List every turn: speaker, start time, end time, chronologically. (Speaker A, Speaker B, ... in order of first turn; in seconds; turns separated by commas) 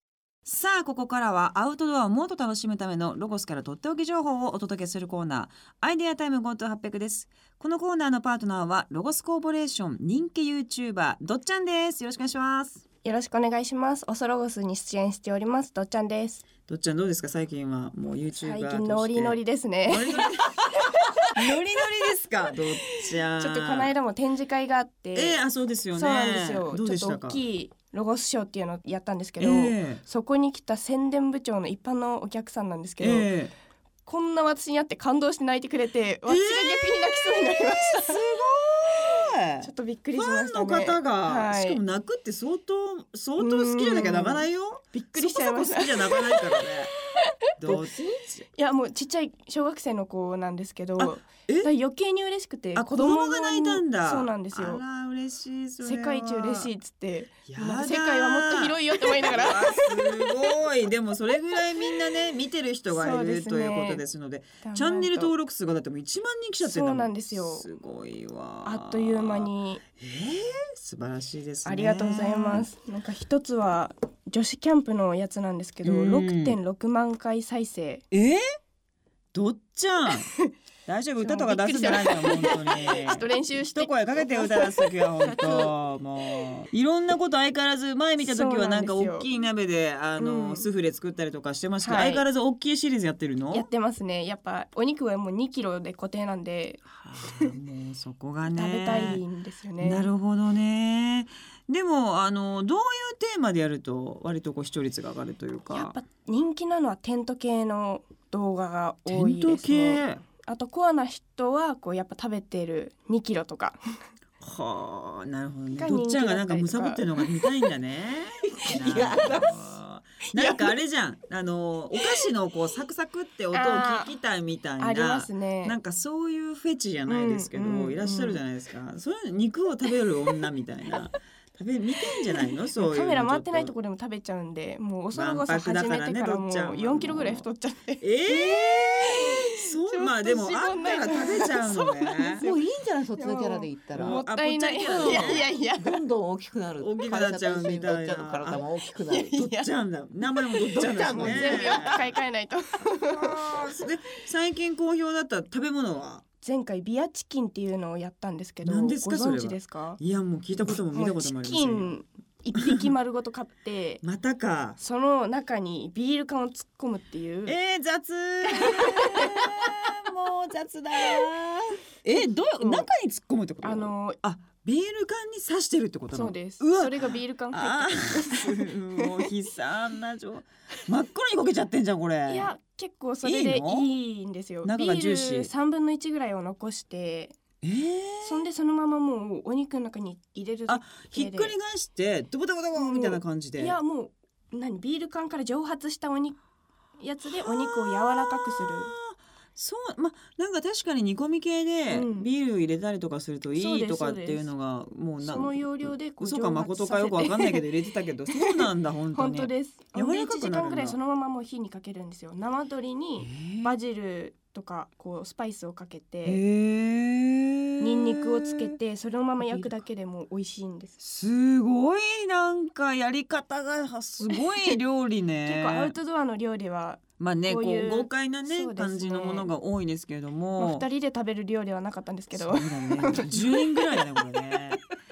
Speaker A: 0.5-12.8, Speaker B: 13.0-16.4, Speaker A: 16.7-23.9, Speaker B: 18.3-20.3, Speaker B: 23.4-25.4, Speaker A: 25.1-27.4, Speaker B: 25.9-33.3, Speaker A: 29.4-30.0, Speaker A: 33.0-33.5, Speaker B: 34.1-38.2, Speaker A: 36.3-46.9, Speaker B: 38.9-41.8, Speaker B: 43.4-47.9, Speaker A: 47.6-48.5, Speaker B: 48.5-54.8, Speaker A: 51.0-51.7, Speaker A: 52.8-56.7, Speaker B: 55.8-60.6, Speaker A: 57.5-72.7, Speaker B: 61.6-61.9, Speaker B: 62.9-64.0, Speaker B: 64.6-65.3, Speaker B: 66.6-67.7, Speaker B: 68.7-69.8, Speaker B: 71.7-78.0, Speaker A: 75.8-76.6, Speaker A: 78.1-78.4, Speaker A: 79.3-80.3, Speaker B: 80.3-80.5, Speaker A: 80.9-93.7, Speaker B: 81.2-85.7, Speaker B: 88.2-89.3, Speaker B: 90.2-90.7, Speaker B: 91.8-92.2, Speaker B: 93.5-97.5, Speaker A: 96.9-99.2, Speaker B: 98.5-100.1, Speaker A: 99.8-106.0, Speaker B: 105.7-113.8, Speaker A: 109.1-110.2, Speaker A: 114.4-133.7, Speaker B: 115.8-117.2, Speaker C: 118.5-119.7, Speaker B: 118.9-119.4, Speaker C: 120.3-120.7, Speaker B: 123.5-124.2, Speaker B: 124.8-125.8, Speaker B: 127.1-128.4, Speaker B: 132.4-142.6, Speaker A: 135.1-137.5, Speaker A: 138.0-142.5, Speaker C: 142.4-144.2, Speaker B: 143.2-146.0, Speaker A: 143.9-145.5, Speaker C: 144.8-149.4, Speaker A: 146.8-148.7, Speaker B: 149.1-149.7, Speaker A: 149.3-152.1, Speaker C: 150.5-152.1, Speaker B: 150.6-153.6, Speaker A: 152.9-156.2, Speaker B: 156.4-160.0, Speaker A: 158.6-161.9, Speaker B: 160.6-164.0, Speaker A: 162.6-162.9, Speaker A: 164.0-164.8, Speaker B: 164.8-167.6, Speaker A: 167.5-182.5, Speaker B: 168.5-169.7, Speaker B: 172.1-172.9, Speaker B: 173.6-174.2, Speaker B: 176.1-179.3, Speaker B: 182.3-187.4, Speaker A: 183.2-183.9, Speaker A: 184.6-185.5, Speaker A: 187.6-188.4, Speaker B: 188.2-191.6, Speaker A: 190.7-193.8, Speaker B: 192.8-196.4, Speaker B: 197.0-198.9, Speaker A: 197.4-211.0, Speaker B: 201.9-202.3, Speaker B: 203.6-204.5, Speaker B: 205.2-207.7, Speaker B: 208.3-216.4, Speaker A: 213.2-213.8, Speaker A: 216.2-218.8, Speaker B: 217.8-221.0, Speaker A: 219.4-219.8, Speaker A: 221.0-225.9, Speaker B: 224.3-224.8, Speaker B: 225.4-229.5, Speaker A: 227.2-230.9, Speaker B: 230.6-234.7, Speaker A: 232.3-234.8